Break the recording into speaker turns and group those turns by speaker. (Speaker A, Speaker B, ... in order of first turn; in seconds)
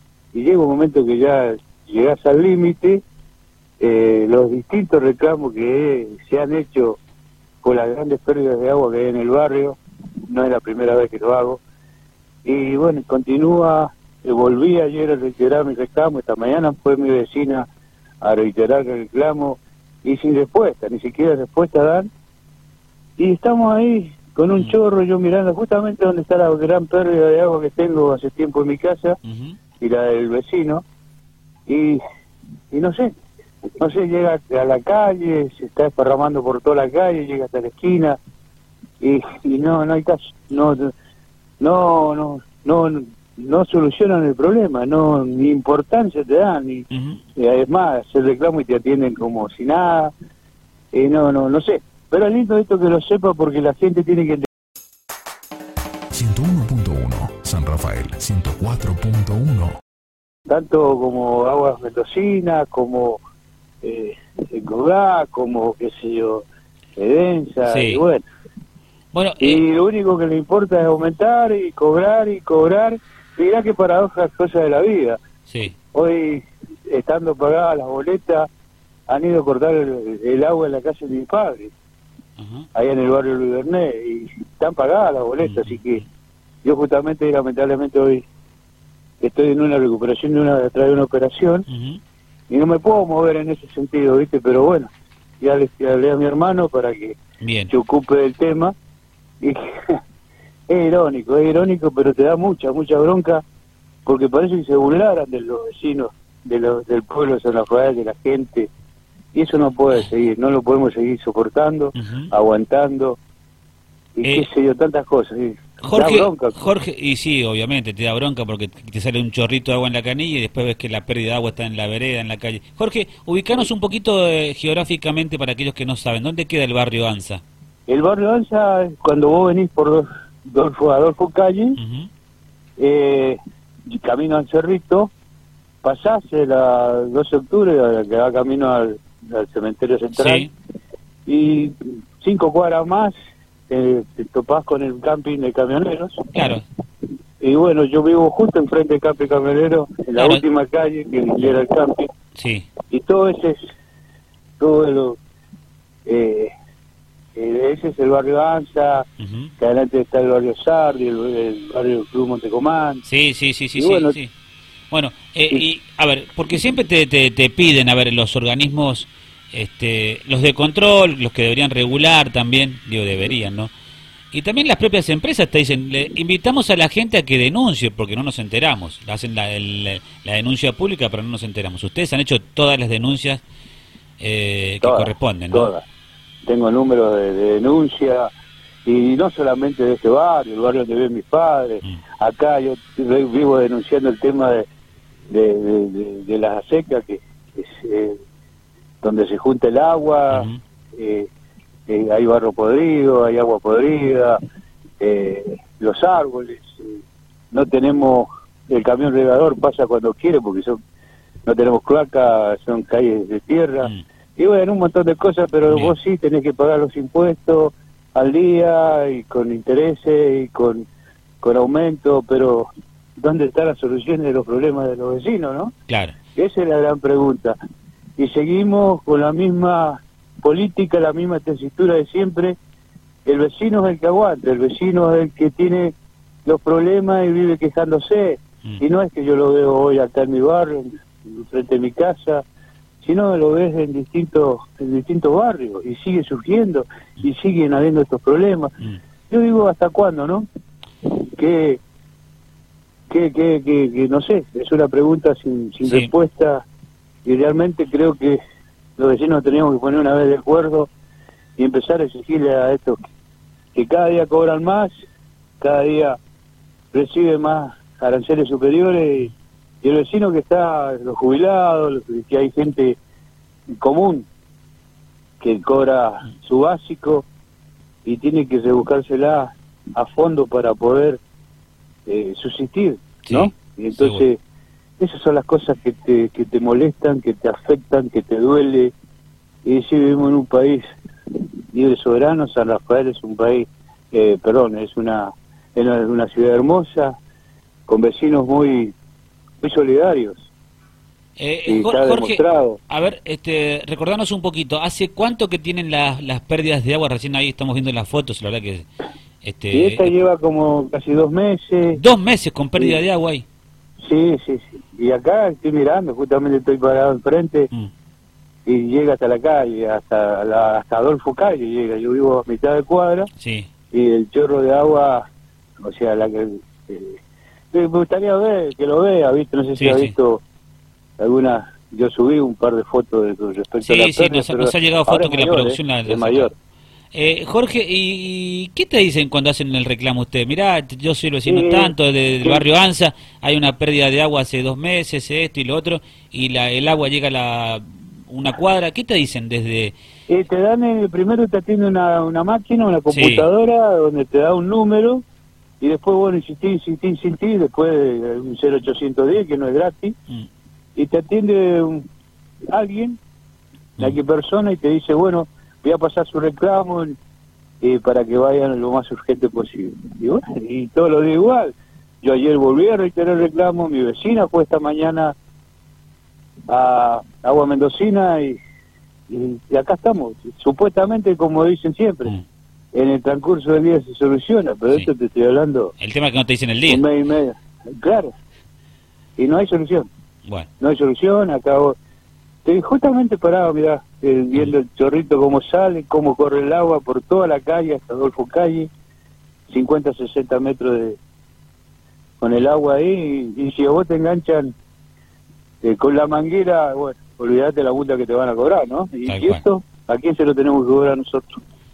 Speaker A: 0.3-3.0, 3.8-7.0, 7.6-9.8, 10.3-11.6, 12.4-17.6, 18.2-22.1, 23.2-29.2, 29.8-30.8, 31.7-32.0, 32.7-33.1, 33.8-38.2, 39.0-40.9, 41.6-50.1, 50.9-54.5, 60.5-63.2, 63.8-66.5, 67.0-68.2, 69.4-75.2, 75.9-78.5, 79.1-81.7, 82.8-86.0, 86.6-88.2, 89.2-91.7, 92.5-97.2, 97.7-98.7, 99.4-100.0, 100.7-103.4, 104.0-108.7, 109.3-113.2, 114.2-116.6, 127.9-131.8, 132.8-133.4, 133.9-135.1, 135.8-140.5, 141.3-143.1, 143.7-146.2, 147.4-152.1, 152.9-153.6, 154.6-155.2, 156.1-156.5, 157.4-159.1, 159.6-163.0, 163.8-164.2, 184.8-185.8, 186.5-188.3, 188.8-194.7, 195.3-198.2, 199.0-201.3, 201.9-204.4, 205.0-207.0, 207.5-210.8, 211.5-220.9, 221.4-225.7, 226.3-227.6, 228.2-232.6, 233.3-235.9, 236.5-242.4, 243.0-248.7, 249.3-250.5, 251.4-251.8, 253.1-256.6, 257.2-258.4, 259.0-260.9, 261.6-263.0, 263.7-264.9, 265.6-266.2, 266.9-273.0, 273.8-274.3, 275.4-277.2, 278.1-281.2, 282.1-284.4, 285.0-288.9, 289.6-290.8, 291.7-297.1, 297.9-298.9, 299.6-300.5, 301.7-302.8, 309.7-312.0, 314.0-317.7, 318.7-323.3, 323.9-325.3, 325.8-327.2, 327.7-330.4, 331.2-336.5, 341.5-342.6, 350.3-355.2, 355.8-360.1, 361.0-362.1, 362.7-363.2, 364.0-367.2, 367.8-375.3, 376.7-378.6, 379.3-382.3, 382.9-385.9, 386.9-388.3, 389.4-390.1, 390.8-392.0, 392.6-398.9, 399.7-401.2, 402.4-404.7, 405.8-411.6
Speaker B: 29.2-29.6, 46.9-47.2, 67.7-68.0, 69.1-69.6, 75.5-75.8, 82.4-82.7, 85.4-86.0, 91.7-92.0, 97.4-97.7, 112.0-112.3, 115.8-127.4, 131.8-132.1, 140.1-140.5, 146.3-146.6, 150.2-150.4, 152.4-152.7, 159.2-159.5, 163.1-164.3, 164.9-173.7, 174.3-183.4, 184.2-185.7, 200.3-200.6, 225.9-226.2, 255.8-256.1, 283.3-284.2, 301.4-308.9, 309.4-310.1, 311.9-313.4, 323.4-323.7, 329.8-330.1, 333.8-336.5, 337.1-349.9, 353.1-353.5, 386.0-387.0, 409.3-409.6
Speaker C: 56.1-59.8